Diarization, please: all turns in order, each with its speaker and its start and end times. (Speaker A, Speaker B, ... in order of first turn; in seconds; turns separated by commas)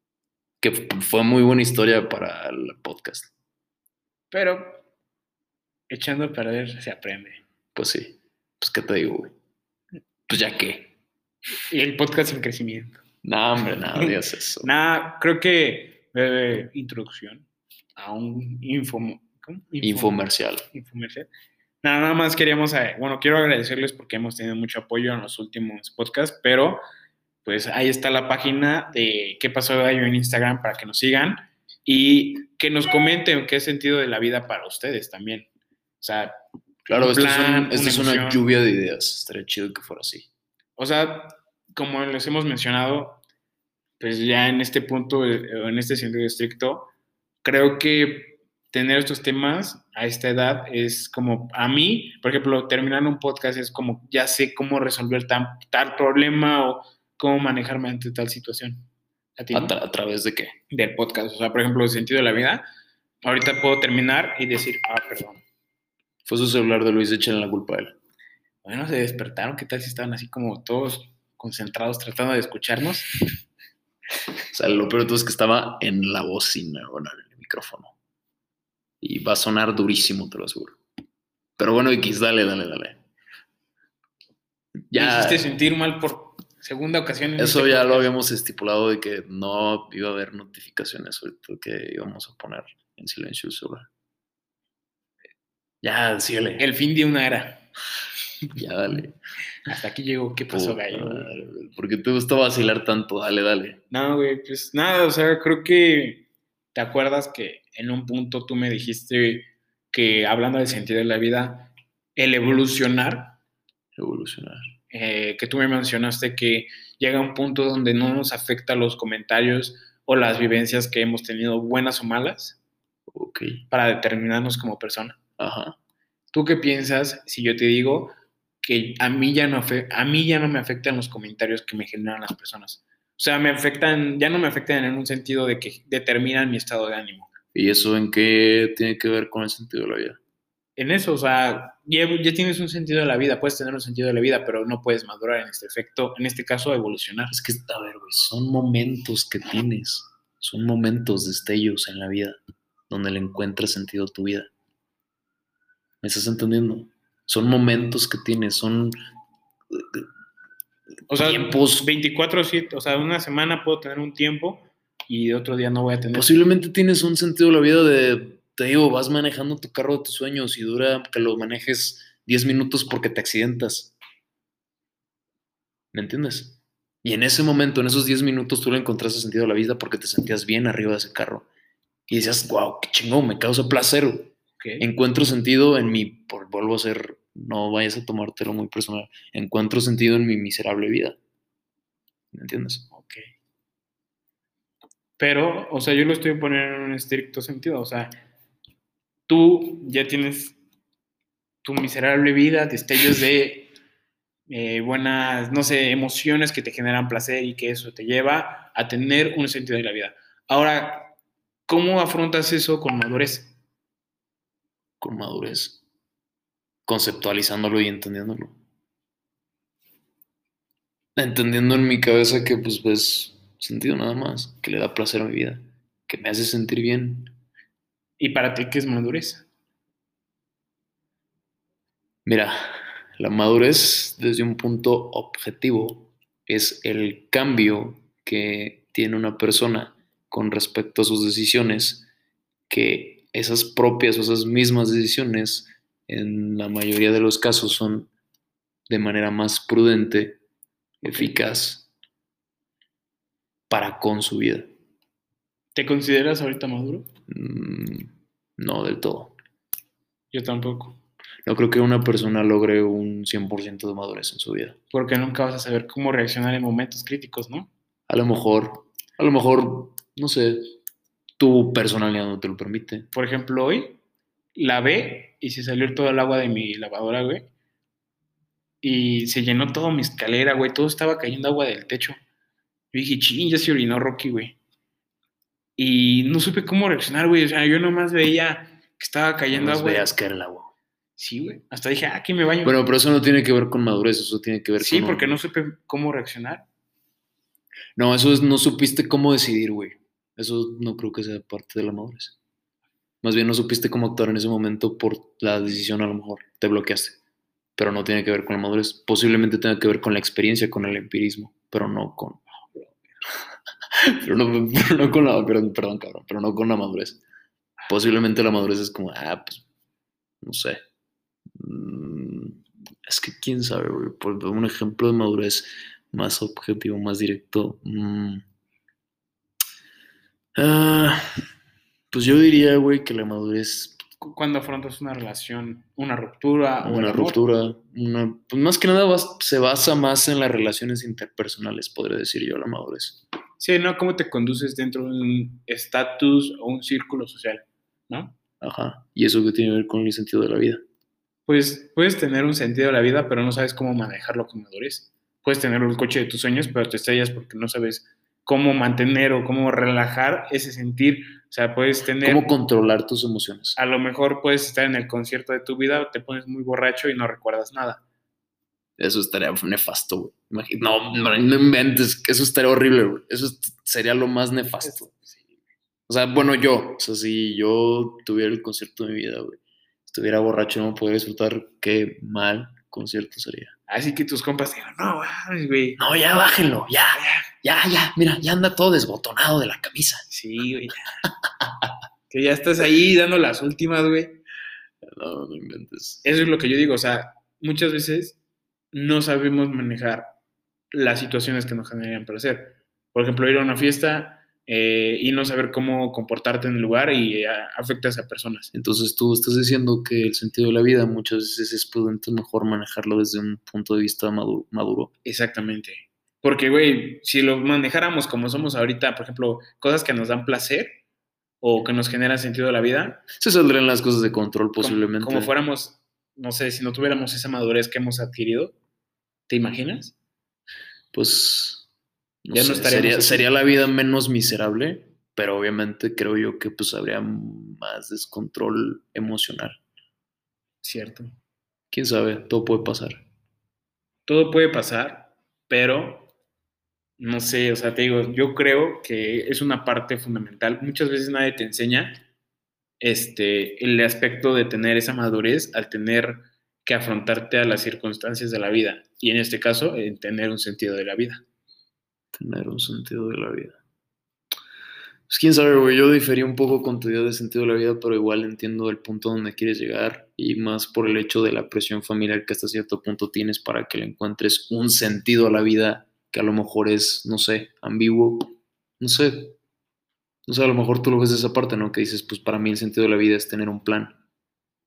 Speaker A: 0.6-3.3, Speaker B: 4.3-4.8, Speaker B: 5.9-7.4, Speaker A: 7.8-9.3, Speaker A: 10.3-10.9, Speaker B: 11.7-13.0, Speaker A: 13.2-14.7, Speaker B: 14.6-17.4, Speaker B: 18.0-21.3, Speaker A: 19.8-20.7, Speaker B: 21.8-26.8, Speaker B: 27.4-35.5, Speaker B: 36.0-36.3, Speaker B: 36.9-38.4, Speaker A: 36.9-40.3, Speaker B: 40.8-43.2, Speaker B: 44.0-46.9, Speaker B: 47.4-58.9, Speaker B: 59.4-59.7, Speaker A: 59.5-60.5, Speaker B: 60.7-62.6, Speaker B: 63.2-65.4, Speaker A: 66.3-68.0, Speaker B: 68.7-73.1, Speaker A: 74.5-77.9, Speaker A: 79.0-80.8, Speaker A: 81.6-83.0, Speaker A: 84.9-85.5, Speaker B: 84.9-88.1, Speaker A: 87.4-93.9, Speaker A: 95.8-96.7, Speaker B: 96.6-97.7, Speaker A: 98.5-99.2, Speaker B: 99.7-101.3, Speaker A: 100.5-103.8, Speaker B: 103.9-113.4, Speaker A: 114.0-114.7, Speaker B: 114.9-122.6, Speaker A: 123.1-123.6, Speaker B: 123.7-125.2, Speaker A: 125.4-125.8, Speaker B: 126.3-137.3, Speaker A: 137.5-140.2, Speaker B: 140.8-147.3, Speaker A: 147.3-152.4, Speaker A: 152.9-154.5, Speaker A: 156.0-159.0, Speaker A: 159.7-160.1, Speaker B: 161.1-166.3, Speaker A: 161.2-161.9, Speaker A: 166.1-173.9, Speaker A: 175.9-181.5, Speaker A: 182.1-191.2, Speaker B: 184.6-184.9, Speaker A: 192.3-192.9, Speaker B: 192.9-193.2, Speaker B: 195.2-198.1, Speaker B: 199.3-200.6, Speaker B: 201.6-203.7, Speaker B: 204.5-211.2, Speaker B: 211.7-213.5, Speaker A: 215.0-215.8, Speaker A: 216.9-218.6, Speaker A: 221.2-227.3, Speaker B: 228.2-229.5, Speaker A: 232.2-232.6, Speaker A: 233.2-242.1, Speaker A: 242.7-248.1, Speaker A: 248.9-250.4, Speaker B: 251.0-251.3, Speaker A: 251.0-251.9, Speaker A: 253.7-254.7, Speaker B: 255.8-257.1, Speaker A: 257.3-259.3, Speaker B: 260.3-261.0, Speaker A: 261.5-264.8, Speaker B: 264.9-267.7, Speaker A: 268.1-270.8, Speaker A: 271.4-273.1, Speaker B: 273.1-274.0, Speaker B: 274.6-277.5, Speaker B: 278.8-282.2, Speaker B: 282.9-284.6, Speaker B: 285.8-290.1, Speaker A: 289.5-290.7, Speaker B: 291.2-292.8, Speaker A: 292.6-295.4, Speaker B: 294.8-296.6, Speaker A: 298.0-302.4, Speaker A: 303.2-307.2, Speaker A: 307.8-312.4, Speaker A: 313.9-317.2, Speaker A: 317.9-319.6, Speaker A: 320.4-320.8, Speaker A: 321.5-328.4, Speaker A: 330.6-331.2, Speaker A: 332.1-334.0, Speaker B: 334.2-337.4, Speaker A: 336.8-343.2, Speaker B: 343.6-348.4, Speaker A: 348.6-350.8, Speaker B: 351.5-362.5, Speaker A: 362.2-363.8, Speaker B: 363.8-368.0, Speaker A: 369.0-375.1, Speaker B: 374.8-375.4, Speaker A: 376.1-383.7, Speaker B: 383.9-386.0, Speaker A: 386.0-390.2, Speaker B: 387.1-387.5, Speaker B: 390.3-391.2, Speaker A: 391.6-391.9, Speaker B: 392.3-394.4, Speaker A: 395.1-396.2, Speaker B: 396.2-398.4, Speaker B: 398.9-400.3, Speaker B: 400.9-408.7, Speaker A: 408.7-415.1, Speaker B: 415.2-421.0, Speaker B: 421.6-423.2, Speaker A: 423.3-425.5, Speaker B: 424.8-428.7, Speaker B: 429.5-430.1, Speaker A: 431.1-431.9, Speaker A: 432.4-439.8, Speaker B: 432.5-433.4, Speaker B: 440.8-441.3, Speaker A: 441.9-443.2, Speaker B: 444.3-446.3, Speaker B: 447.2-452.2, Speaker B: 453.0-461.4, Speaker A: 462.3-463.8, Speaker A: 465.3-479.6, Speaker A: 480.5-484.2